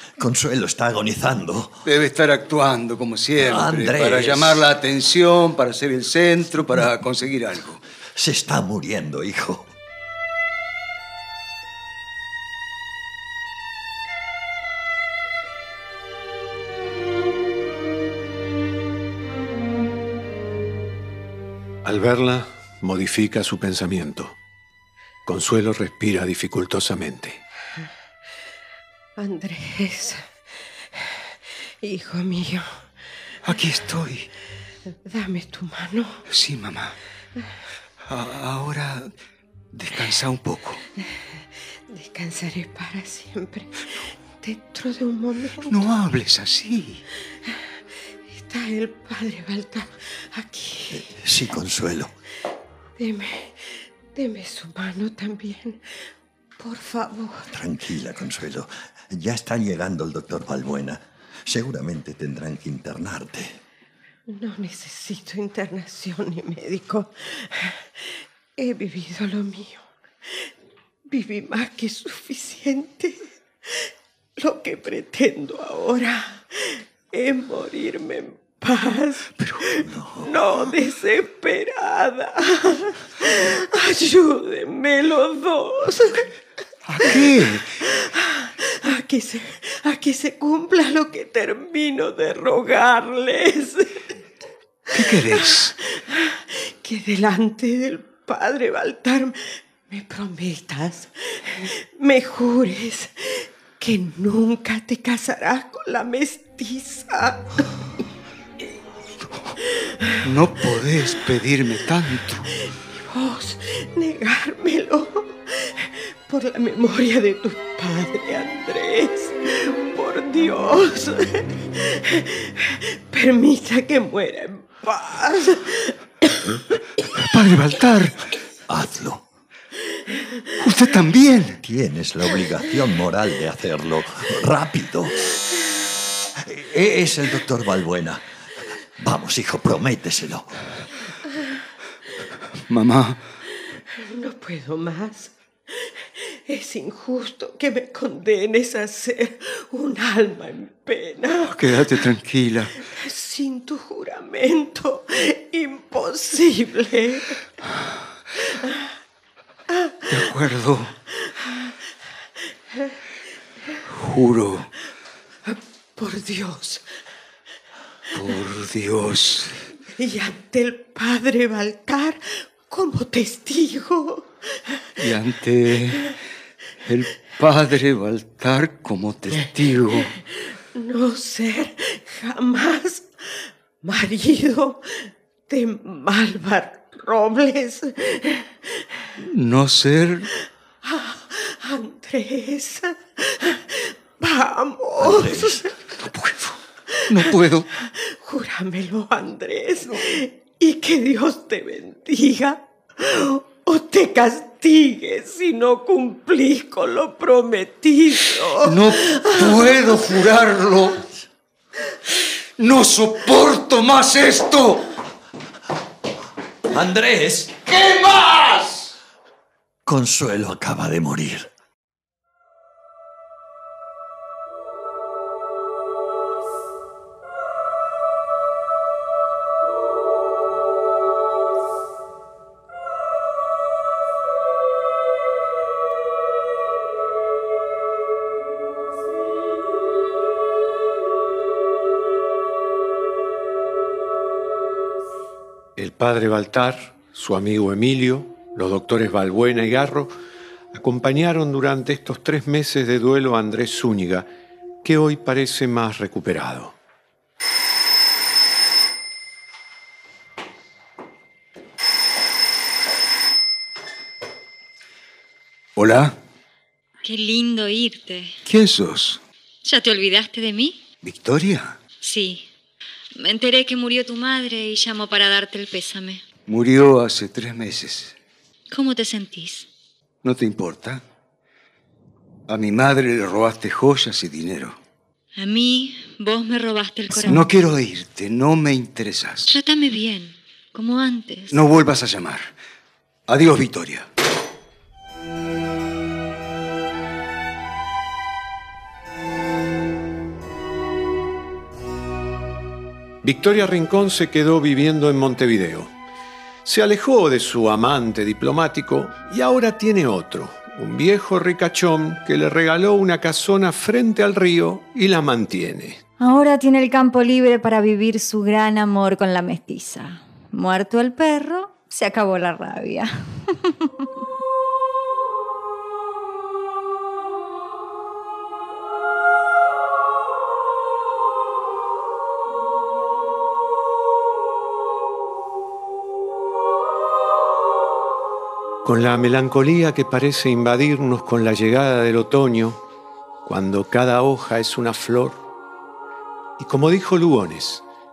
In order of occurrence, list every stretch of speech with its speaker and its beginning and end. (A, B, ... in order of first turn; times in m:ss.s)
0:00.2-0:01.8 A
0:01.8-0:07.8 B
0:03.4-0:04.6 A
0:08.2-0:09.7 A
0:21.8-0:24.4 C
0:25.3-0:27.4 C
0:29.2-0:30.3 D
0:31.8-0:32.7 D
0:33.4-0:34.3 B
0:35.0-0:36.2 D
0:36.3-0:37.0 B
0:38.1-0:39.1 B
0:39.7-0:40.8 B
0:41.9-0:45.9 D
0:45.6-0:47.0 B
0:48.3-0:51.1 D
0:50.9-0:52.1 A
0:53.0-0:55.8 D
0:56.6-0:57.5 D
0:57.5-1:03.6 A
1:04.3-1:10.5 D
1:11.1-1:13.8 D
1:14.4-1:26.3 D
1:19.8-1:20.3 A
1:26.9-1:27.8 B
1:27.0-1:34.0 D
1:34.9-1:47.7 D
1:34.9-1:35.8 B
1:50.2-1:52.5 B
1:53.1-2:06.0 D
2:07.2-2:08.2 B
2:08.7-2:09.2 A
2:10.6-2:11.6 B
2:11.6-2:15.3 A
2:16.4-2:18.3 A
2:19.0-2:20.5 A
2:22.7-2:23.2 B
2:24.0-2:32.0 D
2:31.4-2:32.8 B
2:32.9-2:37.4 D
2:39.8-2:40.2 D
2:40.1-2:41.0 B
2:43.9-2:44.7 B
2:45.5-2:46.9 D
2:48.1-2:49.6 B
2:50.0-2:54.6 D
2:55.0-2:56.2 B
2:56.8-3:00.2 B
3:00.8-3:08.8 D
3:09.2-3:10.3 B
3:10.8-3:15.7 D
3:15.0-3:15.6 A
3:16.0-3:16.6 B
3:16.9-3:29.7 D
3:17.1-3:17.7 B
3:28.6-3:31.0 B
3:32.6-3:34.8 B
3:36.7-3:37.6 A
3:37.8-3:38.8 B
3:39.9-3:41.5 A
4:05.8-4:10.1 C
4:10.7-4:14.3 C
4:14.8-4:16.8 C
4:25.8-4:26.2 B
4:27.0-4:28.4 E
4:28.4-4:29.2 B
4:29.6-4:30.8 E
4:31.0-4:31.8 B
4:32.0-4:32.5 E
4:33.2-4:36.2 E
4:36.5-4:38.2 B
4:38.7-4:39.7 E
4:40.2-4:41.0 B
4:42.5-4:44.8 B
4:45.4-4:47.5 E
4:47.1-4:49.6 B
4:49.5-4:51.6 E
4:51.5-4:52.5 B
4:53.3-4:54.1 B
5:03.2-5:05.9 C
5:06.6-5:16.0 C
5:16.2-5:23.9 F
5:38.8-5:42.8 C
5:43.4-5:45.4 C
5:46.6-5:47.8 C